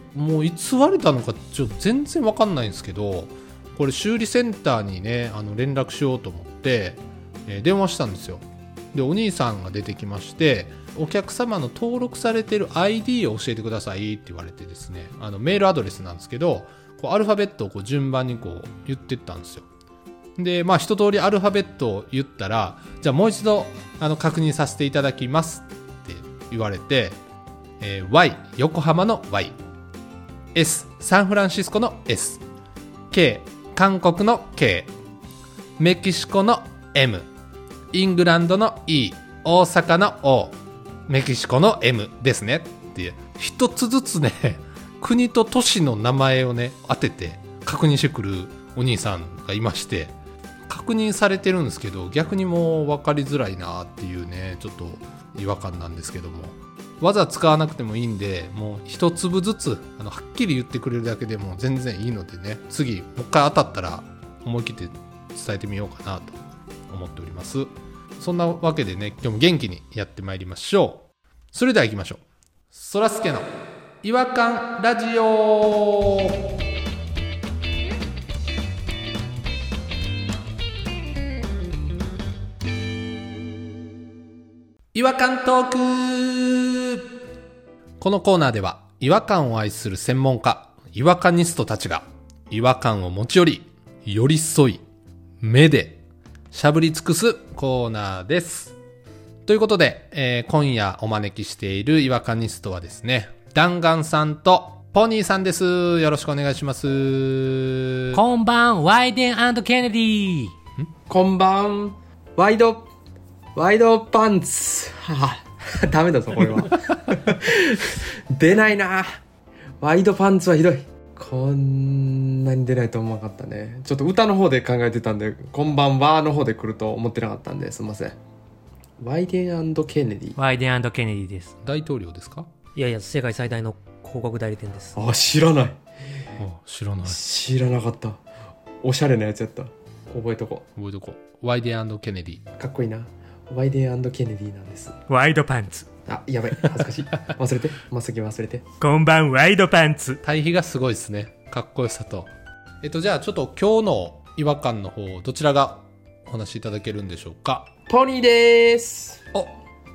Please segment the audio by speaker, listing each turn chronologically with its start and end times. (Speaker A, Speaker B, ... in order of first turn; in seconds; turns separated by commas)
Speaker A: 0.1-19.7, Speaker A: 20.4-27.2, Speaker A: 27.8-29.6, Speaker A: 30.5-32.4, Speaker A: 33.1-34.9, Speaker A: 35.8-37.3, Speaker A: 37.9-40.6, Speaker A: 41.1-50.1, Speaker A: 50.7-73.5, Speaker A: 74.0-76.4, Speaker A: 84.9-87.0, Speaker A: 88.0-94.8, Speaker A: 95.4-98.8, Speaker A: 99.5-108.2, Speaker B: 108.1-110.5, Speaker C: 111.1-112.9, Speaker C: 113.5-119.2, Speaker C: 119.8-128.2, Speaker C: 129.0-130.4, Speaker B: 130.3-131.5, Speaker A: 131.6-132.5, Speaker B: 132.7-135.0, Speaker C: 134.9-135.8, Speaker A: 136.4-137.2, Speaker C: 137.0-138.2, Speaker C: 138.8-140.6, Speaker A: 140.8-142.4, Speaker C: 142.6-144.9, Speaker B: 145.1-145.9, Speaker C: 146.1-148.6, Speaker B: 148.8-150.2, Speaker A: 150.2-152.3, Speaker A: 152.8-157.7, Speaker C: 157.9-159.2